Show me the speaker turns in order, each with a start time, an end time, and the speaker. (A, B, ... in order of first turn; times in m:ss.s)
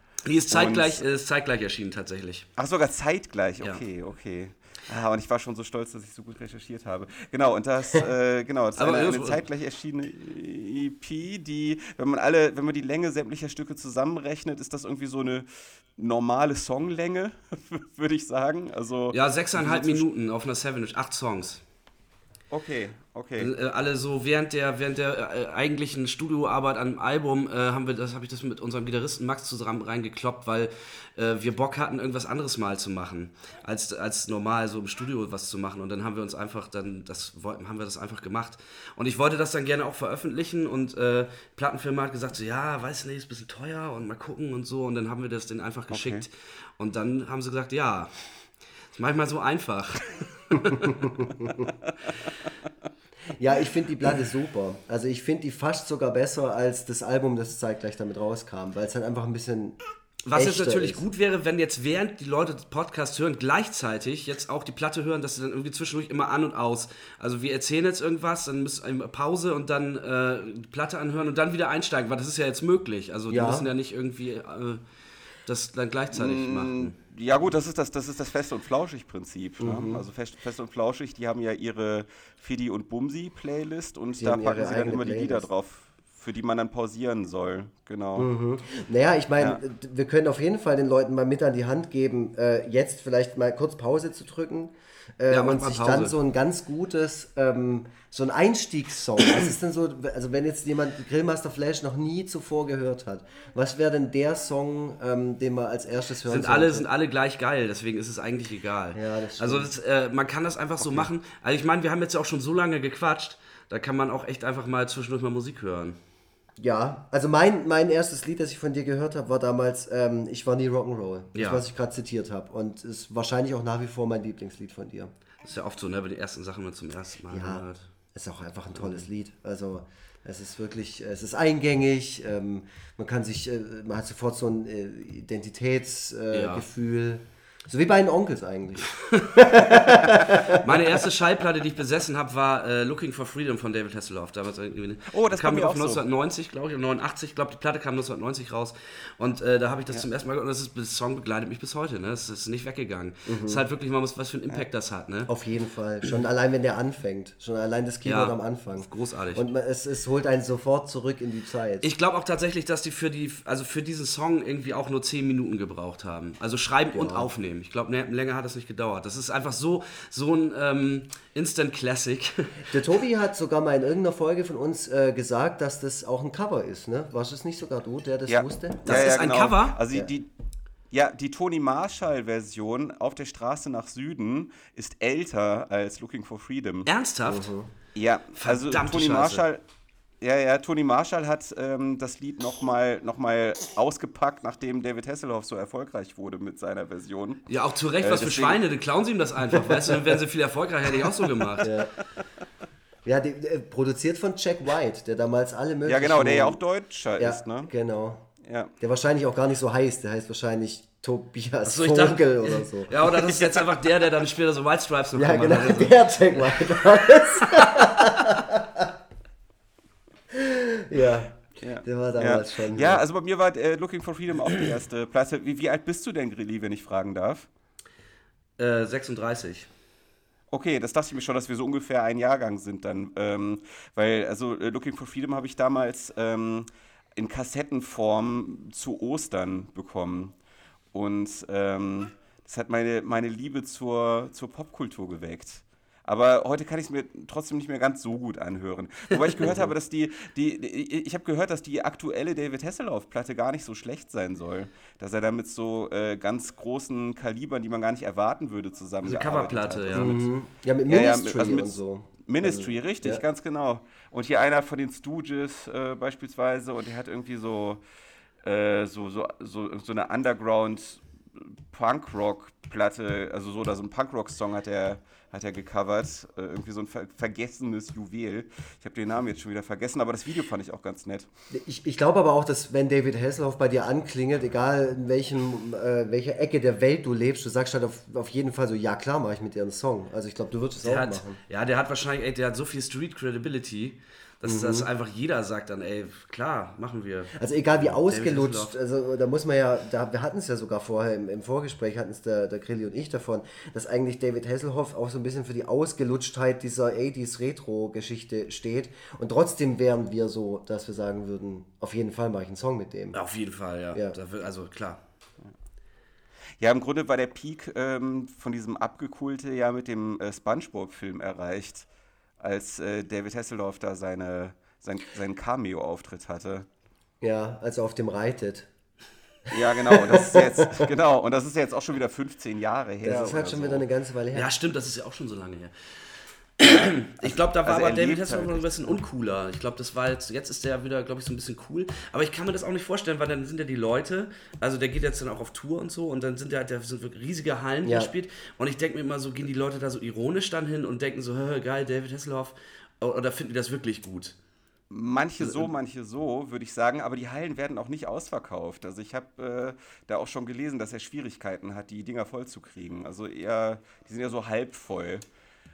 0:00.2-0:02.5 A
0:00.5-0:01.0 B
0:02.6-0:20.0 B
0:08.8-0:09.4 A
0:19.1-0:21.6 A
0:22.5-0:23.5 B
0:23.4-0:48.4 A
0:45.9-0:46.2 B
0:48.9-0:51.2 A
0:50.8-0:51.7 C
0:53.4-0:59.8 C
1:00.2-1:14.8 A
1:00.3-1:01.0 C
1:13.3-1:13.7 C
1:15.5-1:17.0 A
1:16.1-1:28.3 B
1:19.6-1:20.0 C
1:24.2-1:25.5 C
1:28.2-1:46.9 C
1:35.3-1:36.2 A
1:46.3-1:56.0 A
1:48.9-1:49.7 C
1:56.6-2:05.1 C
2:01.3-2:01.6 A
2:05.4-2:07.9 A
2:07.3-2:20.8 C
2:08.8-2:09.0 A
2:16.3-2:16.7 A
2:19.1-2:35.3 A
2:25.1-2:26.0 B
2:33.3-2:33.6 C
2:35.3-2:41.9 C
2:38.0-2:39.4 A
2:41.8-2:52.7 A
2:46.9-2:47.3 C
2:52.7-2:59.2 C
2:58.3-3:00.3 B
2:58.8-2:59.8 A
3:00.9-3:06.9 B
3:06.9-3:07.5 A
3:07.3-3:07.7 C
3:08.0-3:09.6 B
3:08.4-3:09.5 A
3:10.2-3:17.5 B
3:17.5-3:21.7 A
3:18.0-3:18.6 B
3:21.6-3:21.9 C
3:23.0-3:26.6 C
3:25.9-3:27.7 B
3:27.2-3:28.3 C
3:28.4-3:28.7 B
3:28.8-3:33.0 C
3:31.6-3:38.4 A
3:35.2-3:38.9 C
3:40.3-3:43.0 C
3:41.6-3:47.5 B
3:48.6-3:49.7 A
3:50.5-4:00.4 B
4:00.9-4:20.2 B
4:09.2-4:09.7 A
4:19.0-4:20.2 A
4:19.9-4:23.2 C
4:20.9-4:27.8 B
4:28.4-4:41.3 B
4:41.5-4:51.4 C
4:50.8-4:58.7 A
4:54.4-4:54.9 C
4:57.4-5:13.2 C
5:13.1-5:15.0 A
5:16.6-5:21.9 B
5:22.4-5:26.7 B
5:27.2-5:28.7 C
5:29.5-5:33.8 B
5:29.9-5:30.9 C
5:33.0-5:34.5 C
5:34.3-5:35.7 A
5:36.6-5:54.4 A
5:36.6-5:39.0 B
5:47.8-5:48.1 C
5:54.9-6:05.2 B
5:55.4-5:55.7 C